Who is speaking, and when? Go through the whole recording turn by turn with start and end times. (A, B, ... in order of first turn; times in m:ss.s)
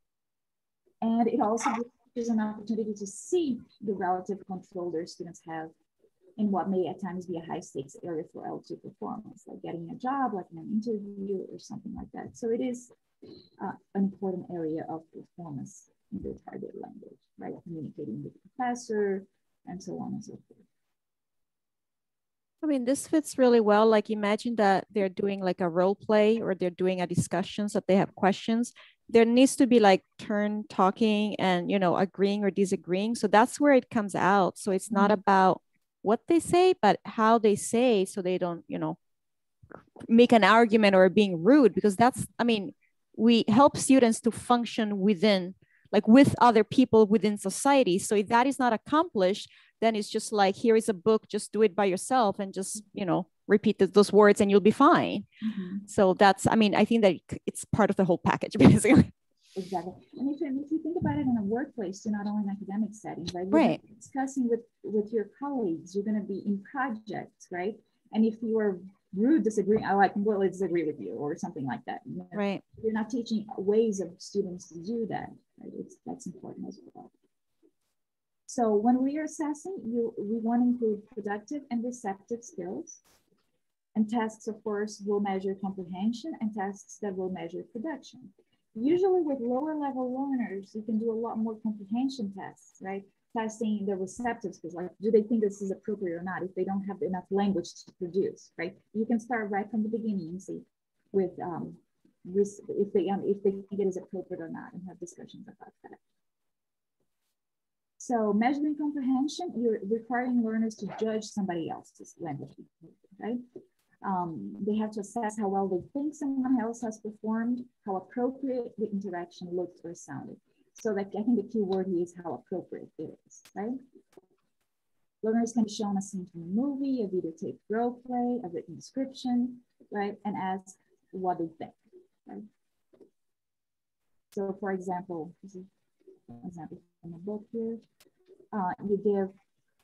0:01.0-0:05.7 A
0:06.4-0:12.9 A
0:13.6-0:20.6 A
0:22.6-0:39.0 B
0:40.1-0:55.3 B
0:55.4-0:55.8 A
0:55.9-0:59.1 B
0:59.6-1:17.1 A
1:03.5-1:03.8 B
1:12.3-1:12.6 B
1:18.5-1:23.0 A
1:23.9-1:46.0 A
1:48.0-1:53.4 A
1:54.0-2:03.8 A
2:05.2-2:12.4 A
2:14.3-2:15.7 A
2:16.3-2:17.8 A
2:18.5-2:19.3 A